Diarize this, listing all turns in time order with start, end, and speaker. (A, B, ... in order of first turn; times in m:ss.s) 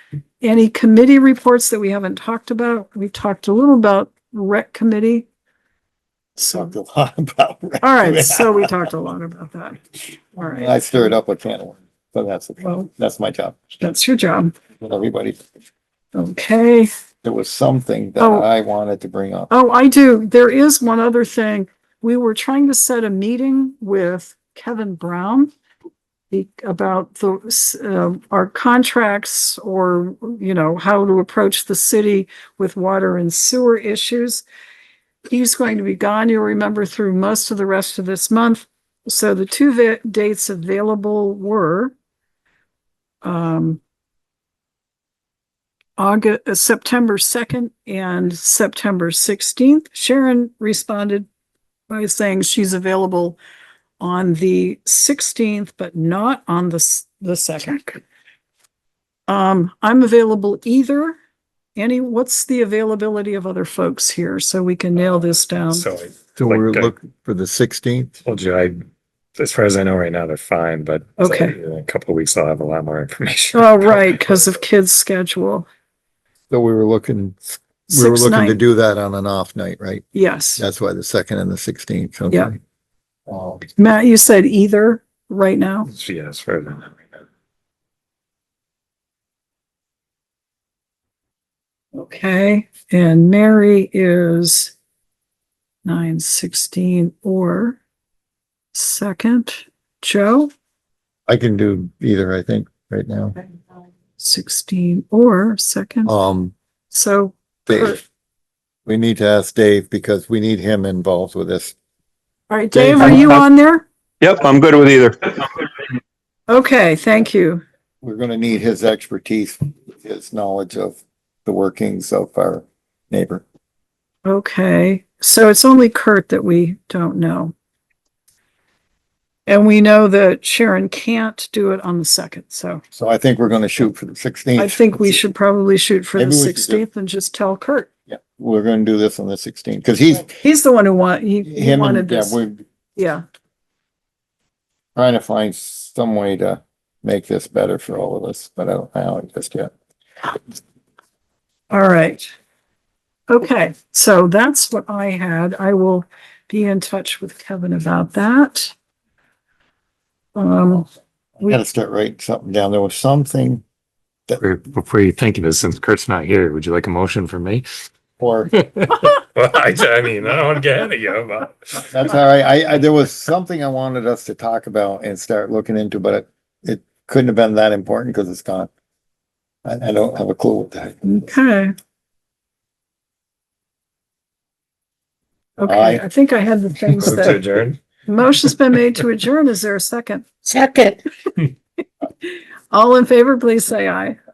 0:00.4-0:05.3 A
0:06.4-0:08.7 B
0:07.8-0:09.8 A
0:10.3-0:11.1 A
0:10.5-0:13.7 B
0:12.6-0:12.9 A
0:13.8-0:14.6 A
0:14.8-0:15.4 B
0:16.1-0:16.9 A
0:17.2-0:19.5 B
0:18.2-0:18.5 A
0:19.5-0:25.5 A
0:26.3-0:34.4 A
0:35.3-0:41.9 A
0:43.2-0:43.8 A
0:46.0-0:51.3 A
0:51.9-0:53.4 A
0:54.0-0:58.0 A
0:59.3-1:01.2 A
1:01.8-1:05.9 A
1:05.7-1:06.9 C
1:06.4-1:08.1 B
1:08.2-1:08.8 C
1:09.4-1:14.5 C
1:11.2-1:11.6 A
1:13.5-1:15.7 A
1:16.5-1:20.0 B
1:17.9-1:18.6 A
1:20.1-1:20.6 A
1:20.6-1:22.6 B
1:23.3-1:23.6 B
1:23.8-1:25.9 A
1:25.9-1:27.0 C
1:32.0-1:34.7 A
1:35.8-1:37.8 A
1:38.7-1:40.5 A
1:41.3-1:43.4 B
1:44.2-1:46.1 A
1:46.1-1:46.6 B
1:46.9-1:48.0 A
1:47.7-1:48.0 B
1:48.9-1:51.8 B
1:52.5-1:53.9 A
1:52.8-1:53.1 B
1:53.0-1:53.4 D
1:54.2-1:55.7 D
1:54.5-1:55.0 C
1:56.5-1:57.6 A
1:58.0-2:03.4 B
2:04.2-2:07.5 A
2:09.5-2:12.8 A
2:12.9-2:15.2 B
2:14.6-2:17.9 A
2:16.2-2:16.8 B
2:18.1-2:20.3 B
2:20.4-2:22.4 A
2:21.4-2:22.6 B
2:23.0-2:23.2 A
2:25.0-2:29.7 B
2:31.7-2:32.3 A
2:33.3-2:38.8 A
2:40.4-2:40.9 A
2:41.4-2:43.6 B
2:44.4-2:47.7 C
2:48.2-2:48.5 B
2:48.5-2:51.9 C
2:51.9-2:58.7 B
2:59.6-3:01.2 B
3:01.0-3:01.7 A
3:05.6-3:07.4 A
3:05.6-3:06.0 B
3:07.0-3:07.8 C
3:08.1-3:10.4 A
3:12.2-3:14.2 A